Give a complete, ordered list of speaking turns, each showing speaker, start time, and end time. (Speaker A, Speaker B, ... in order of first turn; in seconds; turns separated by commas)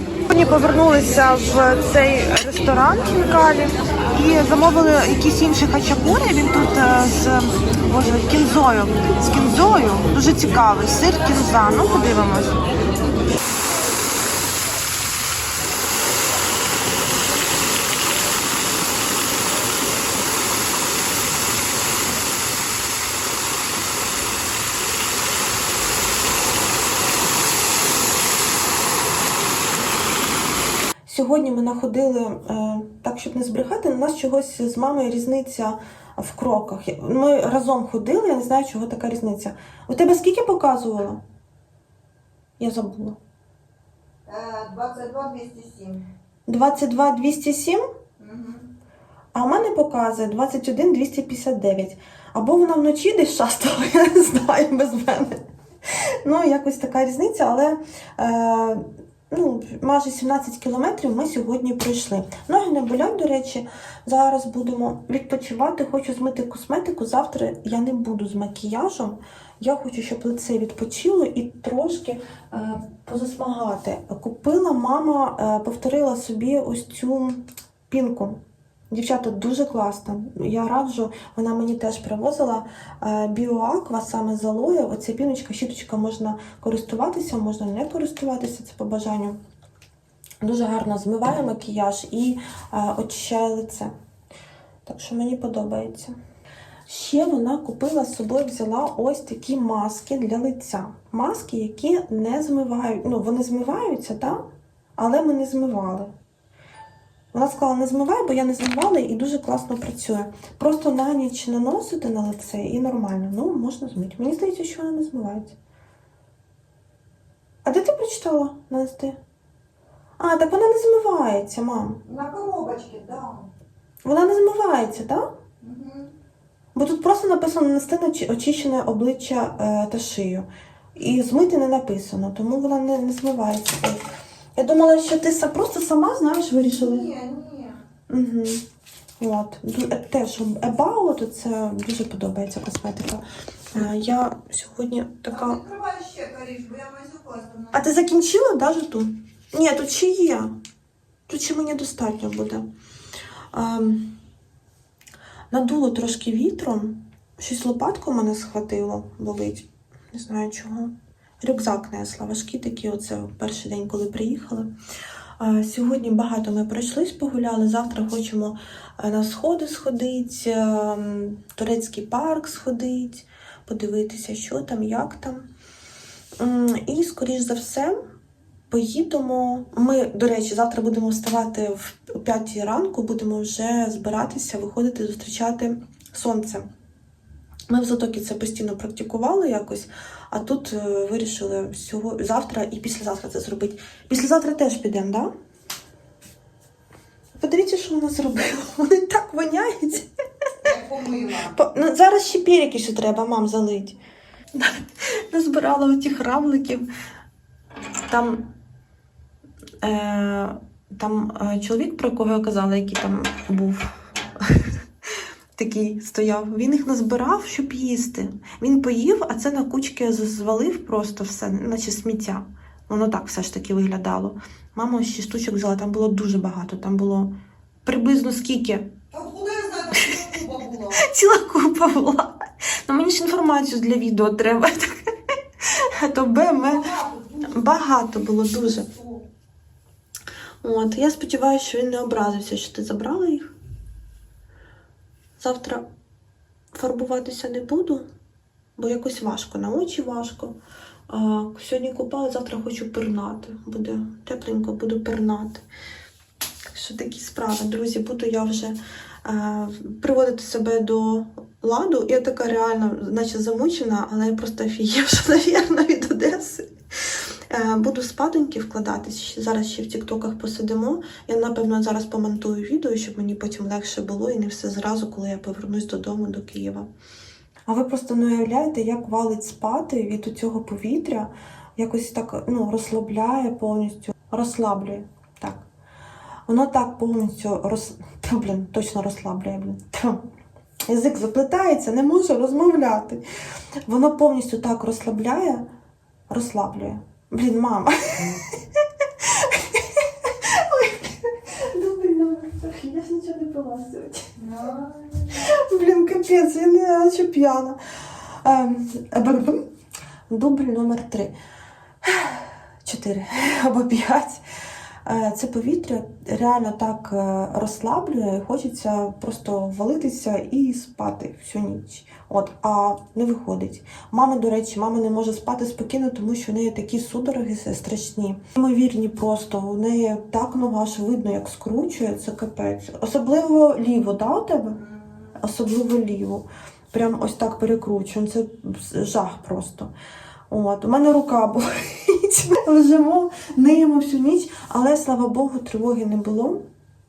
Speaker A: 0.3-12.6, Speaker A: 31.1-41.2, Speaker A: 42.6-43.2, Speaker B: 44.3-46.0, Speaker A: 46.5-47.8, Speaker B: 48.2-48.6, Speaker A: 49.3-89.4, Speaker A: 90.4-93.9, Speaker A: 94.8-96.2, Speaker A: 96.9-104.4, Speaker A: 105.0-106.1, Speaker A: 107.3-115.6, Speaker A: 117.6-119.2, Speaker A: 120.2-122.0, Speaker B: 122.0-123.5, Speaker A: 124.0-125.3, Speaker B: 125.6-126.1, Speaker A: 126.7-134.0, Speaker A: 134.6-137.1, Speaker B: 136.8-137.8, Speaker A: 138.1-138.6, Speaker A: 139.2-145.6, Speaker B: 145.3-147.8, Speaker A: 147.7-150.5, Speaker A: 151.3-152.7, Speaker A: 153.5-154.2, Speaker A: 155.5-164.7, Speaker A: 165.4-175.5, Speaker A: 176.4-178.1, Speaker A: 178.7-186.7, Speaker A: 187.7-195.3, Speaker A: 197.4-200.1, Speaker B: 200.6-201.5, Speaker A: 201.4-204.0, Speaker A: 204.5-206.9, Speaker A: 208.1-208.5, Speaker A: 209.8-214.7, Speaker A: 215.5-228.9, Speaker B: 229.1-231.0, Speaker A: 229.9-230.3, Speaker A: 230.9-235.0, Speaker A: 235.6-238.9, Speaker B: 236.7-237.5, Speaker A: 240.6-243.5, Speaker A: 245.4-245.8, Speaker A: 246.7-248.1, Speaker A: 248.8-250.6, Speaker A: 251.1-255.6, Speaker A: 256.7-276.9, Speaker A: 277.7-285.6, Speaker A: 286.5-290.3, Speaker A: 290.9-293.2, Speaker A: 293.9-295.7, Speaker A: 296.3-309.7, Speaker A: 310.3-311.3, Speaker A: 312.0-314.4, Speaker A: 315.0-339.9, Speaker A: 340.5-346.7